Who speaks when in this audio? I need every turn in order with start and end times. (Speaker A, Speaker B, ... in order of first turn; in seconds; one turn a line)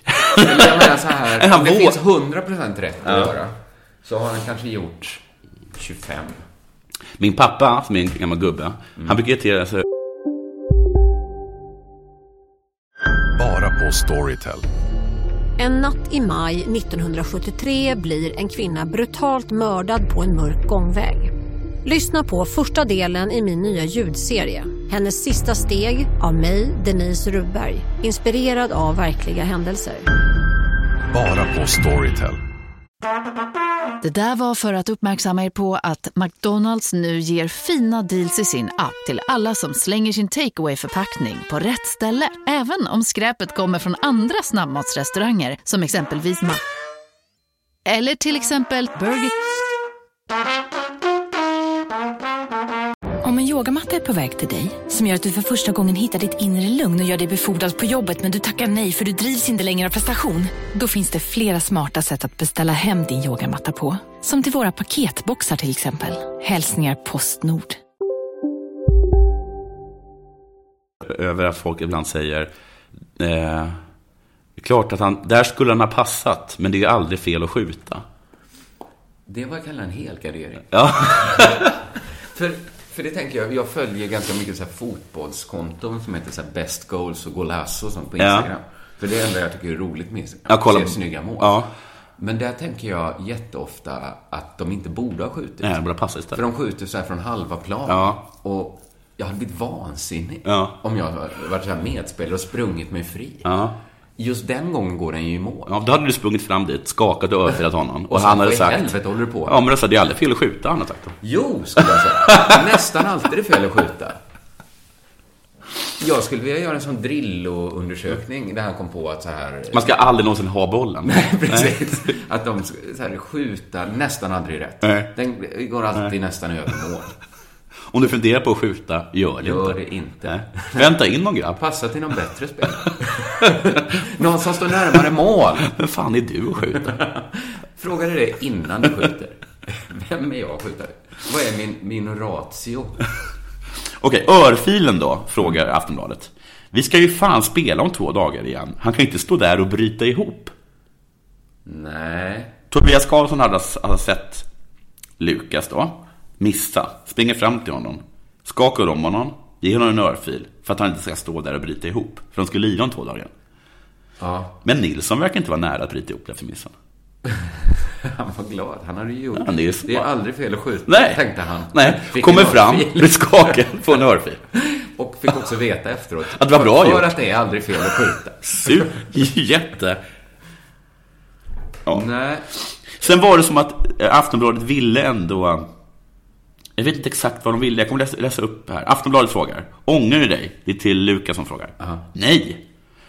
Speaker A: 0.2-2.0
Speaker B: 0.4-3.5
Speaker A: 3.0-3.3
Speaker B: 4.0-6.4
Speaker A: 7.2-9.8
Speaker C: 13.4-14.7
Speaker D: 15.6-21.3
Speaker D: 21.9-30.1
Speaker C: 31.1-32.4
Speaker E: 34.0-46.6
Speaker E: 47.9-49.3
Speaker F: 53.2-67.8
Speaker A: 71.0-72.5
Speaker A: 73.2-73.8
Speaker A: 74.6-78.0
Speaker B: 79.3-81.6
Speaker A: 80.7-81.7
Speaker B: 82.3-91.6
Speaker A: 88.2-88.5
Speaker A: 90.5-91.7
Speaker B: 92.2-95.8
Speaker A: 95.6-96.4
Speaker B: 96.3-103.5
Speaker A: 97.9-98.2
Speaker A: 100.5-100.8
Speaker A: 103.5-103.8
Speaker B: 104.2-105.7
Speaker A: 105.7-108.9
Speaker B: 108.1-109.6
Speaker A: 109.5-111.2
Speaker B: 111.2-114.2
Speaker A: 112.3-112.5
Speaker B: 116.0-119.9
Speaker A: 119.7-121.8
Speaker B: 121.0-127.1
Speaker A: 124.8-125.1
Speaker A: 127.9-131.6
Speaker B: 129.4-130.9
Speaker B: 131.6-135.7
Speaker A: 135.7-137.0
Speaker B: 136.7-143.0
Speaker A: 144.0-150.5
Speaker B: 151.7-152.5
Speaker A: 152.7-154.5
Speaker A: 155.2-163.3
Speaker B: 164.2-164.6
Speaker A: 164.6-166.7
Speaker B: 167.3-173.6
Speaker A: 169.3-170.1
Speaker A: 170.9-171.2
Speaker A: 171.7-174.4
Speaker B: 174.5-178.9
Speaker A: 176.3-177.1
Speaker A: 178.5-180.0
Speaker B: 181.9-182.5
Speaker A: 182.9-185.7
Speaker A: 186.8-192.6